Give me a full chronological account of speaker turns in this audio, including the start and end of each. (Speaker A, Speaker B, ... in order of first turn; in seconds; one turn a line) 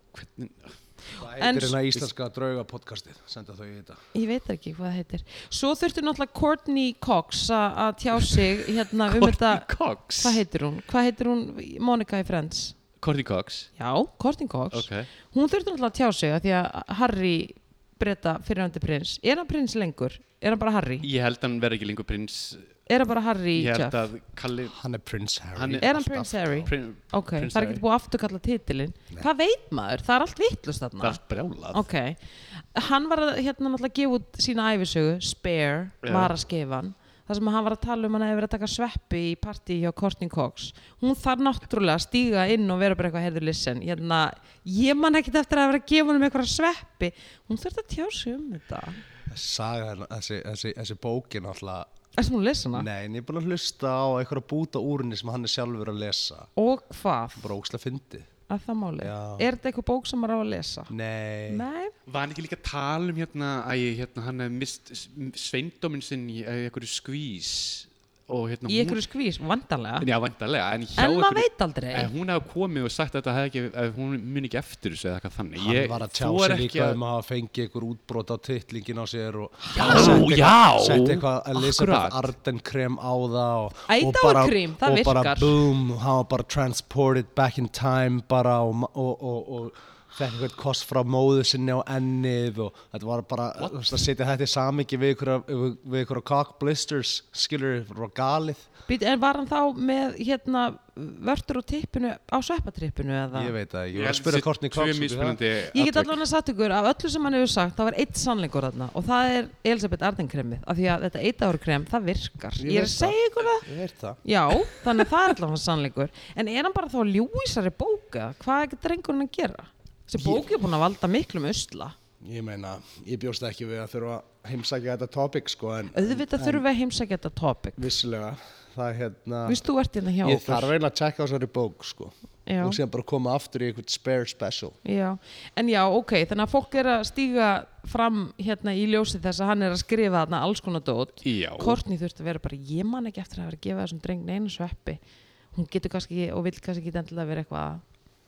Speaker A: 0.1-0.8
Speaker B: 1.1-4.0
Speaker C: 1.3-1.8
Speaker C: 4.1-12.8
Speaker A: 8.2-10.4
Speaker A: 13.0-13.7
Speaker C: 13.8-21.1
Speaker A: 14.7-15.1
Speaker A: 21.0-22.7
Speaker C: 22.9-24.0
Speaker A: 23.5-24.8
Speaker B: 24.7-26.7
Speaker A: 25.5-25.9
Speaker C: 25.8-31.2
Speaker A: 26.6-27.8
Speaker A: 31.0-31.8
Speaker C: 31.7-49.0
Speaker A: 36.0-36.3
Speaker B: 49.3-51.9
Speaker C: 52.1-52.9
Speaker B: 52.7-56.5
Speaker C: 56.6-57.5
Speaker B: 57.4-58.3
Speaker C: 58.5-60.9
Speaker B: 59.0-59.5
Speaker B: 60.9-61.6
Speaker C: 61.5-61.9
Speaker A: 62.0-69.0
Speaker C: 68.7-70.1
Speaker A: 70.0-77.0
Speaker C: 71.0-72.1
Speaker B: 75.6-98.7
Speaker C: 79.7-80.2
Speaker A: 79.7-82.3
Speaker C: 83.9-85.6
Speaker C: 98.9-103.5
Speaker B: 103.3-105.4
Speaker A: 103.9-106.2
Speaker C: 105.7-113.7
Speaker B: 112.6-114.2
Speaker C: 114.2-122.0
Speaker B: 120.2-120.5
Speaker B: 122.2-126.7
Speaker C: 125.9-127.8
Speaker B: 127.8-129.7
Speaker C: 129.4-130.7
Speaker B: 130.2-134.8
Speaker C: 132.5-132.8
Speaker C: 134.8-145.0
Speaker A: 141.2-141.8
Speaker C: 145.5-147.8